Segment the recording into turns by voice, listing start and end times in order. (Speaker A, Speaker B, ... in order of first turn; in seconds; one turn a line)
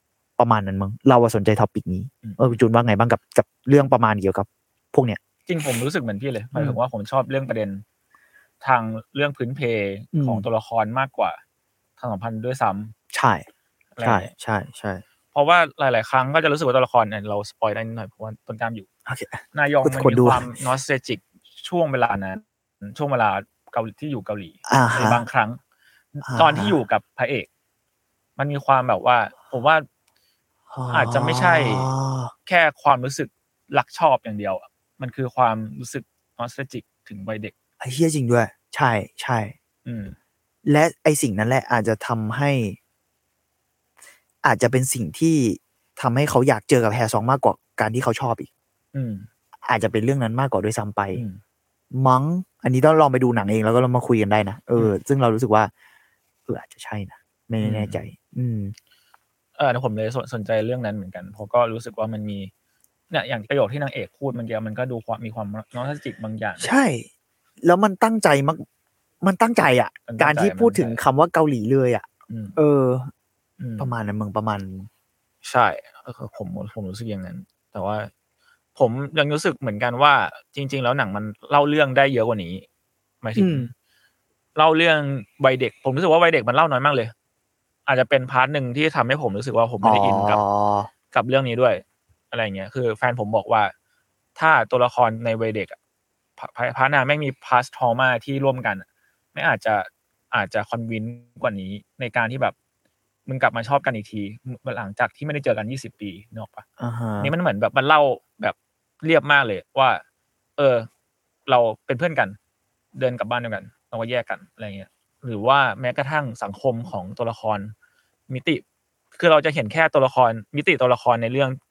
Speaker A: 0.4-5.2
Speaker B: 2.2-2.6
Speaker B: 5.5-7.8
Speaker B: 8.6-11.4
Speaker A: 10.1-10.4
Speaker B: 12.0-12.9
Speaker A: 13.1-13.5
Speaker B: 14.0-14.3
Speaker A: 14.0-15.0
Speaker B: 15.3-18.9
Speaker A: 19.1-20.5
Speaker B: 19.5-25.6
Speaker A: 24.7-25.2
Speaker A: 26.2-26.8
Speaker B: 26.4-27.5
Speaker B: 28.4-29.9
Speaker A: 30.7-32.3
Speaker B: 30.9-31.9
Speaker B: 32.5-37.5
Speaker A: 37.8-39.5
Speaker B: 39.9-40.1
Speaker A: 40.7-42.8
Speaker A: 44.4-48.5
Speaker B: 48.9-49.3
Speaker A: 49.7-51.2
Speaker B: 51.1-51.4
Speaker A: 51.9-55.7
Speaker A: 56.5-58.7
Speaker B: 57.6-58.0
Speaker B: 59.6-62.5
Speaker B: 63.1-66.7
Speaker A: 66.6-67.1
Speaker A: 67.6-68.6
Speaker A: 69.2-72.0
Speaker B: 70.1-71.0
Speaker B: 72.3-72.6
Speaker A: 72.6-73.1
Speaker B: 73.6-73.9
Speaker A: 73.8-74.9
Speaker B: 75.4-78.1
Speaker B: 78.8-82.7
Speaker B: 83.2-83.7
Speaker A: 83.4-83.7
Speaker B: 84.6-87.1
Speaker B: 87.9-90.4
Speaker A: 89.8-90.9
Speaker B: 91.1-93.7
Speaker B: 94.4-95.8
Speaker B: 96.4-102.5
Speaker B: 103.3-106.7
Speaker A: 106.8-107.3
Speaker B: 107.2-110.0
Speaker B: 110.6-110.9
Speaker B: 111.5-112.4
Speaker B: 113.0-117.7
Speaker B: 118.3-118.6
Speaker B: 119.2-121.6